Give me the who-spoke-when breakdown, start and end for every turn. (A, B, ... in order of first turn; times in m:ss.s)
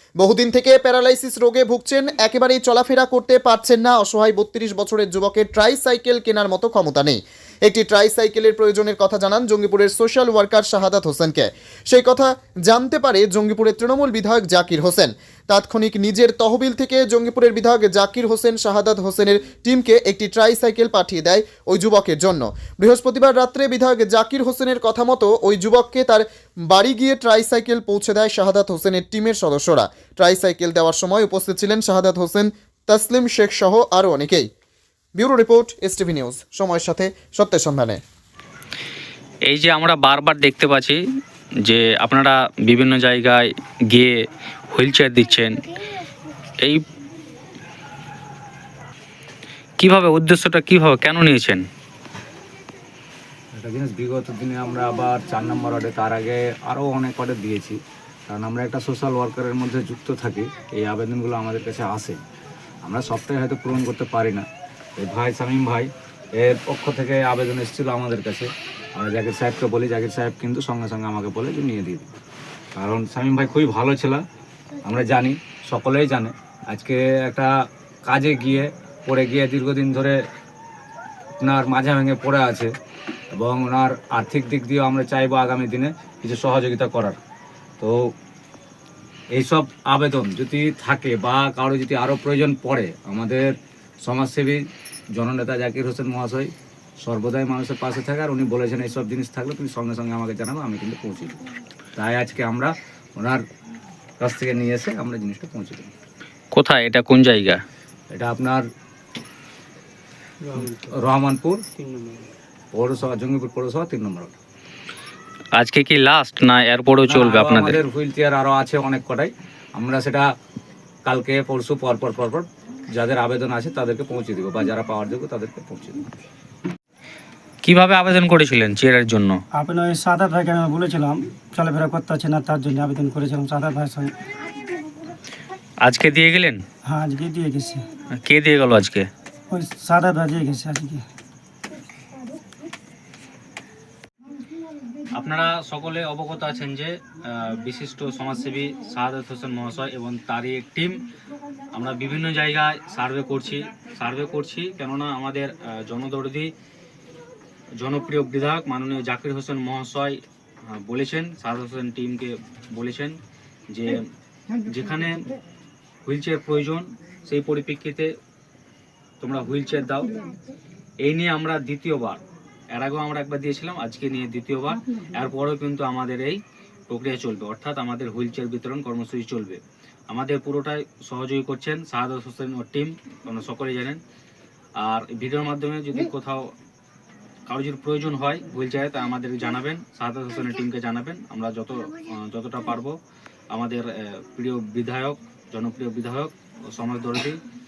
0:00.2-0:34.5 A
0:35.2-0:38.0 A
0:39.5-0:41.0 B
0:41.6-0:45.6 B
0:49.8-0:51.6 B
0:53.5-0:57.8 C
0:58.3-1:02.2 C
1:02.8-1:04.5 C
1:05.0-1:12.1 C
1:12.8-1:14.2 C
1:14.8-1:17.5 C
1:18.0-1:20.2 C
1:21.4-1:22.7 C
1:23.3-1:27.2 C
1:27.8-1:28.1 C
1:29.3-1:41.4 C
1:42.0-1:43.4 C
1:44.2-1:45.9 C
1:46.5-1:47.6 B
1:48.1-1:48.6 C
1:50.5-1:50.8 D
1:50.6-1:51.6 C
1:51.8-1:52.2 D
1:52.7-1:54.3 C
1:55.6-1:57.8 B
1:57.1-2:00.2 C
2:01.0-2:06.1 C
2:07.6-2:09.4 B
2:09.5-2:14.1 D
2:15.8-2:16.6 B
2:16.8-2:17.8 D
2:18.2-2:19.1 B
2:19.5-2:21.0 D
2:25.1-2:31.0 B
2:31.7-2:36.5 B
2:37.8-2:43.2 B
2:43.7-2:44.0 B
2:44.6-2:45.2 B
2:46.0-2:48.1 B
2:49.2-2:50.2 B
2:51.0-2:52.2 B
2:52.7-3:04.0 B
3:04.8-3:06.5 B
3:07.5-3:13.0 B
3:13.5-3:17.4 B